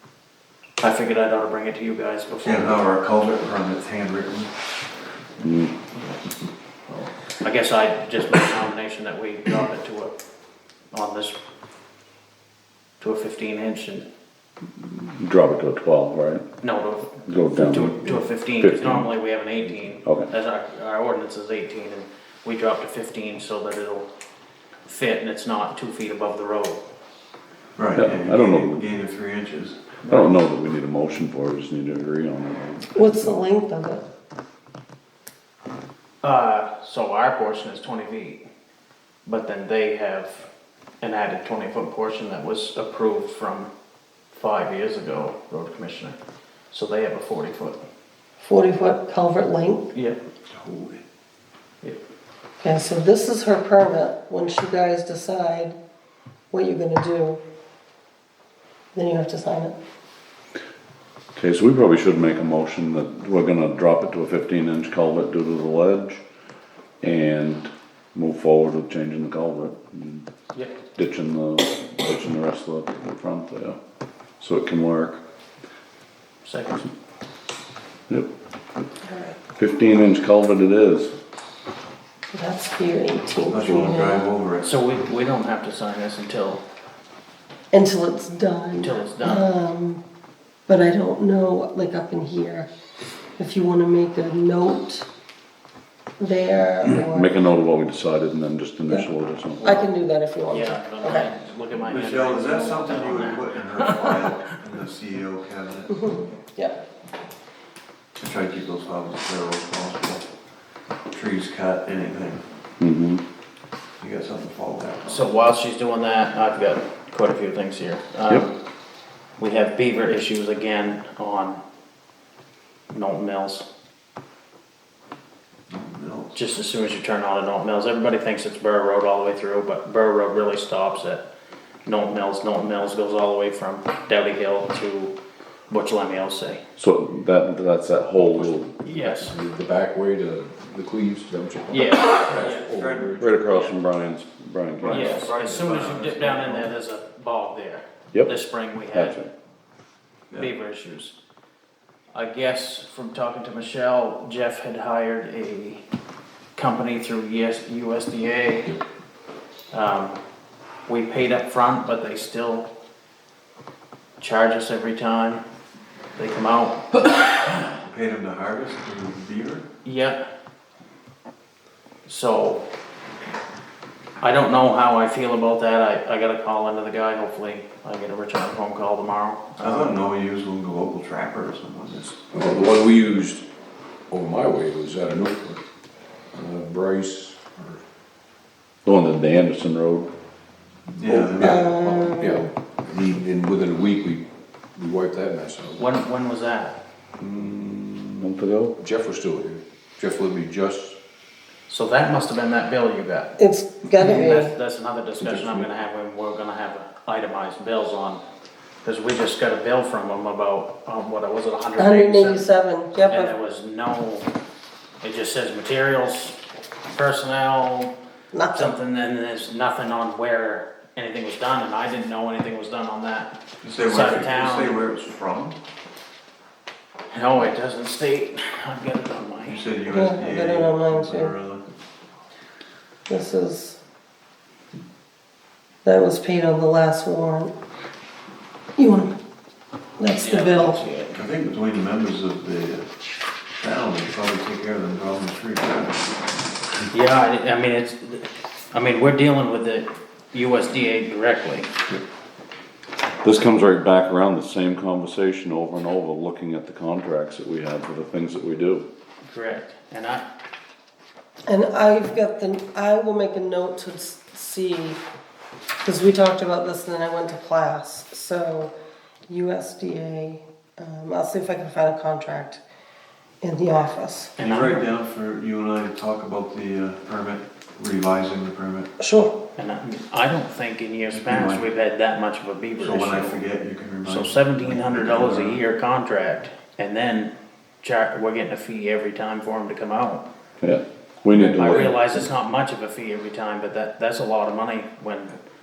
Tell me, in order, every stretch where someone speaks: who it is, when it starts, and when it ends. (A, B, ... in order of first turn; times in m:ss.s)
0:00.8-0:02.8 A
0:02.4-0:04.5 B
0:05.4-0:05.7 C
0:06.9-0:10.2 A
0:10.9-0:11.4 A
0:13.0-0:14.1 A
0:14.8-0:16.4 C
0:16.6-0:24.1 A
0:17.3-0:19.1 C
0:20.0-0:20.3 C
0:24.9-0:26.8 A
0:27.8-0:30.0 B
0:28.0-0:28.8 C
0:30.0-0:33.4 C
0:32.9-0:34.0 D
0:36.2-0:38.4 A
0:39.3-0:40.5 A
0:41.0-0:43.7 A
0:44.3-0:46.2 A
0:46.7-0:47.8 A
0:48.4-0:49.9 D
0:50.5-0:51.0 B
0:52.6-0:55.8 D
0:56.5-0:57.4 D
0:58.9-0:59.8 D
1:01.4-1:06.2 C
1:07.0-1:10.3 C
1:11.0-1:13.8 C
1:14.4-1:15.2 C
1:16.4-1:16.9 A
1:19.0-1:19.4 D
1:19.5-1:21.1 C
1:22.3-1:24.3 D
1:23.4-1:24.7 B
1:24.6-1:26.6 A
1:27.7-1:30.0 D
1:28.8-1:29.5 A
1:30.7-1:32.7 D
1:33.4-1:35.1 D
1:36.2-1:37.4 D
1:36.8-1:39.6 C
1:39.6-1:41.3 D
1:40.5-1:44.2 A
1:41.8-1:46.0 B
1:45.9-1:46.8 D
1:48.2-1:50.2 B
1:51.1-1:52.4 B
1:52.8-1:53.2 C
1:54.0-1:55.2 B
1:55.1-1:58.5 A
1:59.4-2:01.6 A
2:02.9-2:03.7 A
2:05.7-2:06.4 B
2:06.3-2:11.2 A
2:11.9-2:15.2 A
2:15.7-2:16.6 A
2:16.8-2:19.0 C
2:18.8-2:19.4 A
2:19.1-2:23.3 E
2:21.7-2:22.7 A
2:22.2-2:23.3 B
2:23.2-2:25.0 C
2:23.5-2:23.8 A
2:24.8-2:26.7 B
2:24.8-2:29.2 A
2:28.1-2:29.3 C
2:30.4-2:31.1 A
2:32.1-2:35.8 A
2:36.6-2:38.8 A
2:39.7-2:40.2 A
2:40.9-2:42.7 A
2:44.2-2:45.4 A
2:46.2-2:47.6 A
2:47.8-2:49.7 B
2:49.8-2:50.3 A
2:52.1-2:52.6 A
2:54.2-3:00.0 A
2:59.6-3:02.2 B
3:02.3-3:03.4 E
3:04.1-3:05.6 E
3:06.3-3:07.8 E
3:08.8-3:10.1 C
3:10.9-3:11.6 B
3:11.1-3:14.2 E
3:11.4-3:12.5 D
3:14.8-3:15.8 E
3:15.8-3:16.8 A
3:17.2-3:18.1 E
3:18.2-3:18.8 C
3:18.8-3:21.0 E
3:21.7-3:23.4 A
3:23.4-3:24.5 D
3:24.0-3:28.2 A
3:25.2-3:25.7 E
3:28.8-3:32.4 A
3:31.8-3:33.3 D
3:33.1-3:34.3 A
3:35.0-3:36.4 A
3:36.9-3:37.9 A
3:38.3-3:38.8 D
3:38.5-3:44.8 A
3:43.6-3:45.6 B
3:47.1-3:49.6 A
3:49.5-3:51.7 B
3:49.9-3:51.3 D
3:53.1-3:53.8 D
3:55.8-3:57.5 D
3:58.8-3:59.2 D
4:00.0-4:00.8 D
4:00.2-4:01.2 A
4:01.1-4:02.9 B
4:03.6-4:06.0 B
4:06.9-4:11.7 A
4:13.2-4:18.9 C
4:19.3-4:20.2 A
4:21.5-4:25.0 D
4:25.8-4:28.7 D
4:29.3-4:32.6 D
4:33.4-4:34.4 D
4:34.4-4:34.8 A
4:34.4-4:38.9 B
4:39.0-4:39.4 D
4:39.6-4:43.4 A
4:41.1-4:41.7 B
4:42.8-4:45.6 B
4:44.0-4:50.2 A
4:50.6-4:51.9 C
4:51.4-4:51.9 E
4:51.6-4:55.4 A